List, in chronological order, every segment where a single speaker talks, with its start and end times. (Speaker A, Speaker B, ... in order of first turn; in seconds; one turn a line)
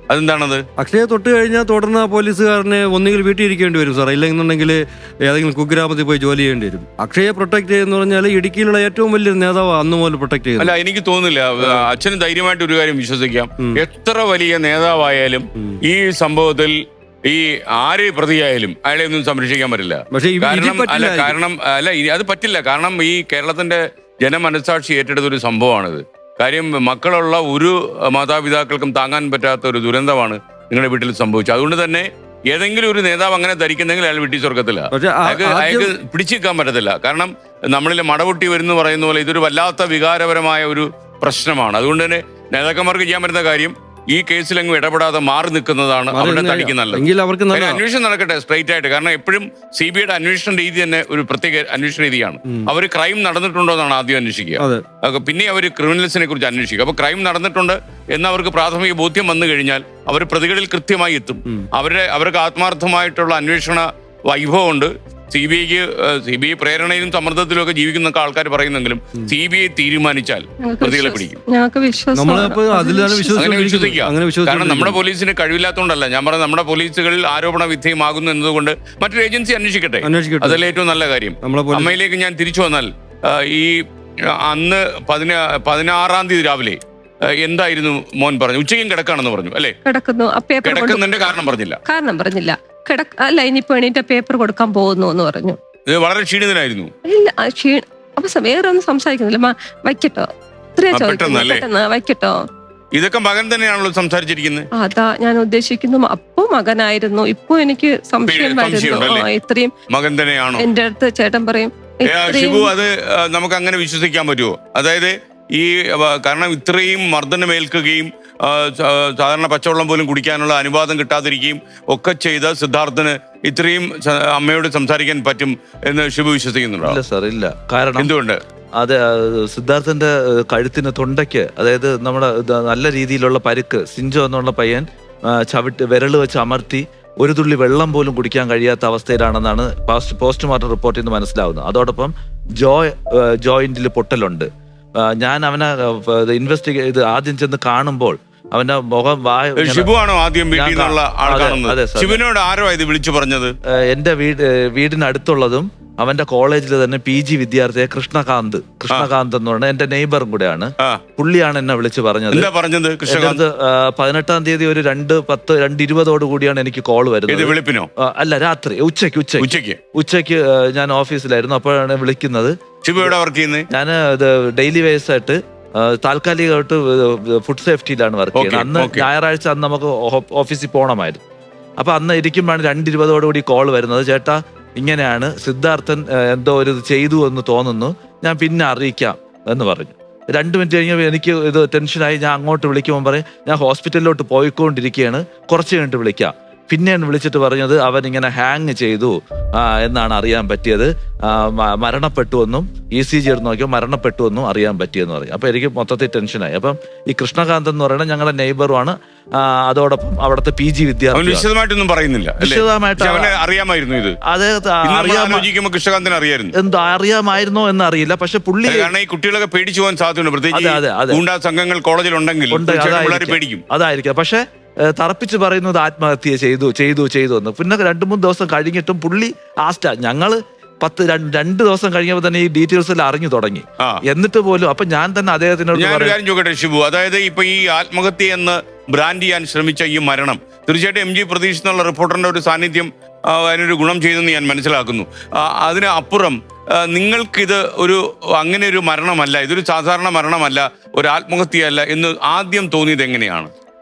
Speaker A: 0.1-0.6
Speaker B: 0.8-10.6
Speaker A: 10.6-16.8
Speaker B: 11.6-11.9
Speaker A: 17.3-71.4
Speaker B: 20.3-21.3
Speaker B: 35.1-35.9
Speaker B: 46.1-47.8
Speaker C: 70.6-73.4
Speaker B: 72.1-75.0
Speaker A: 73.3-83.8
Speaker B: 80.0-80.6
Speaker B: 81.4-81.9
Speaker A: 84.3-89.8
Speaker C: 89.8-91.0
Speaker A: 90.6-91.8
Speaker C: 91.9-95.6
Speaker A: 95.9-96.9
Speaker C: 97.1-102.4
Speaker A: 100.9-101.7
Speaker A: 103.0-104.7
Speaker C: 104.8-109.7
Speaker A: 108.3-109.2
Speaker A: 109.9-110.7
Speaker C: 110.6-112.7
Speaker A: 112.1-127.0
Speaker D: 126.8-128.1
Speaker A: 128.0-128.4
Speaker D: 128.8-144.5
Speaker D: 145.0-149.9
Speaker A: 149.6-153.5
Speaker D: 150.5-152.2
Speaker D: 153.7-162.5
Speaker A: 162.3-163.4
Speaker D: 163.1-173.2
Speaker A: 167.3-167.9
Speaker A: 169.4-169.8
Speaker A: 172.8-173.7
Speaker D: 173.7-181.2
Speaker A: 178.3-179.1
Speaker D: 181.8-211.5
Speaker A: 211.1-214.2
Speaker D: 212.4-213.4
Speaker D: 214.3-215.5
Speaker A: 214.8-216.5
Speaker D: 216.6-218.9
Speaker A: 218.7-223.6
Speaker D: 220.5-221.2
Speaker D: 222.5-236.2
Speaker A: 235.8-253.5